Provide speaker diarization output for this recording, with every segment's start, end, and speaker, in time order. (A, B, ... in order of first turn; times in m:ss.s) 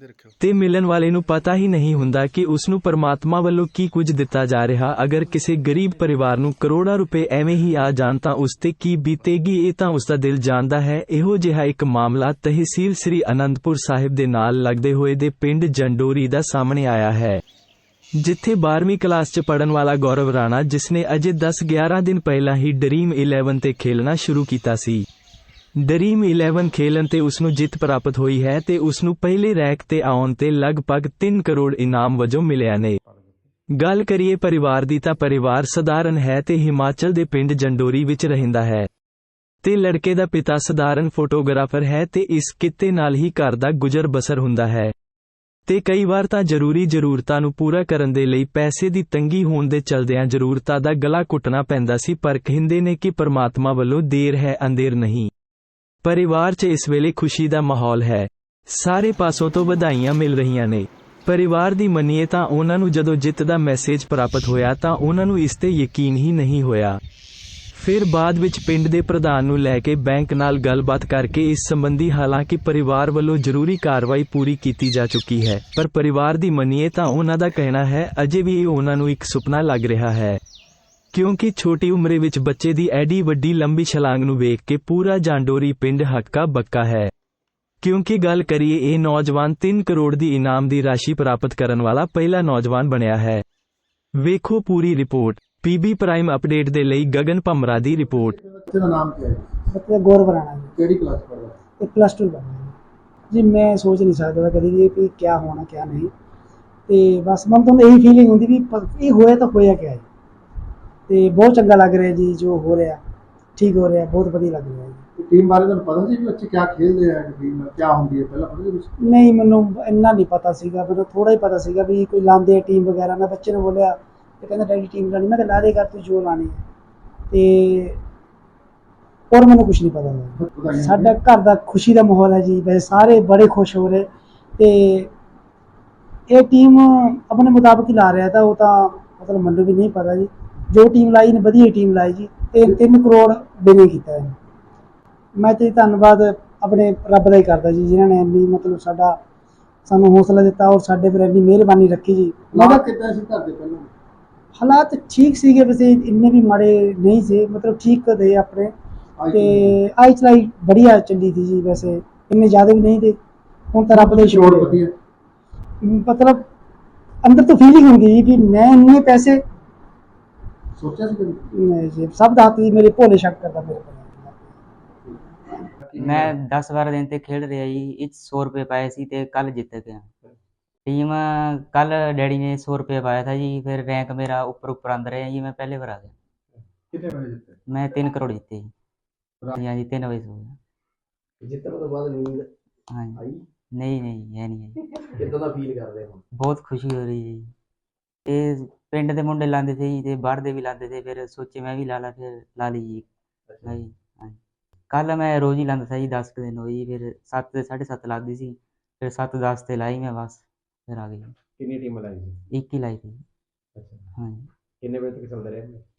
0:00.4-0:17.4 A
0:18.2-0:25.0 A
0:25.8-0:33.0 A
0:33.8-0:38.9 A
0:39.6-0:44.9 A
0:45.7-0:55.3 A
0:56.0-1:07.0 A
1:07.7-1:20.4 A
1:21.1-1:27.1 A
1:27.8-1:33.4 A
1:34.2-1:38.4 A
1:38.1-1:39.5 B
1:39.7-1:40.8 C
1:40.8-1:41.6 B
1:41.8-1:42.7 C
1:43.3-1:46.1 C
1:46.9-1:50.0 C
1:51.1-1:53.0 C
1:53.6-1:55.0 C
1:55.2-1:58.9 B
1:59.0-2:06.6 C
2:07.3-2:08.0 C
2:09.3-2:15.1 C
2:10.4-2:11.1 B
2:16.3-2:24.4 C
2:25.4-2:29.2 C
2:29.9-2:32.9 C
2:32.5-2:33.9 B
2:34.6-2:38.7 C
2:39.2-2:39.8 B
2:39.3-2:43.2 C
2:43.7-2:44.8 C
2:43.9-2:44.9 B
2:45.8-2:46.5 C
2:47.2-2:49.4 C
2:50.8-2:51.5 B
2:51.6-2:54.5 C
2:55.8-2:56.3 B
2:56.0-3:00.1 D
3:00.8-3:06.1 D
3:06.9-3:07.6 B
3:07.7-3:08.7 D
3:09.5-3:10.6 D
3:11.4-3:12.5 E
3:12.9-3:13.2 D
3:13.2-3:13.4 E
3:13.7-3:14.8 D
3:15.0-3:16.2 E
3:16.3-3:17.5 D
3:18.2-3:23.0 D
3:23.5-3:23.8 E
3:23.6-3:24.4 D
3:24.9-3:31.4 D
3:31.6-3:32.4 E
3:32.5-3:33.2 D
3:33.8-3:34.1 E
3:34.2-3:34.5 D
3:34.8-3:35.8 E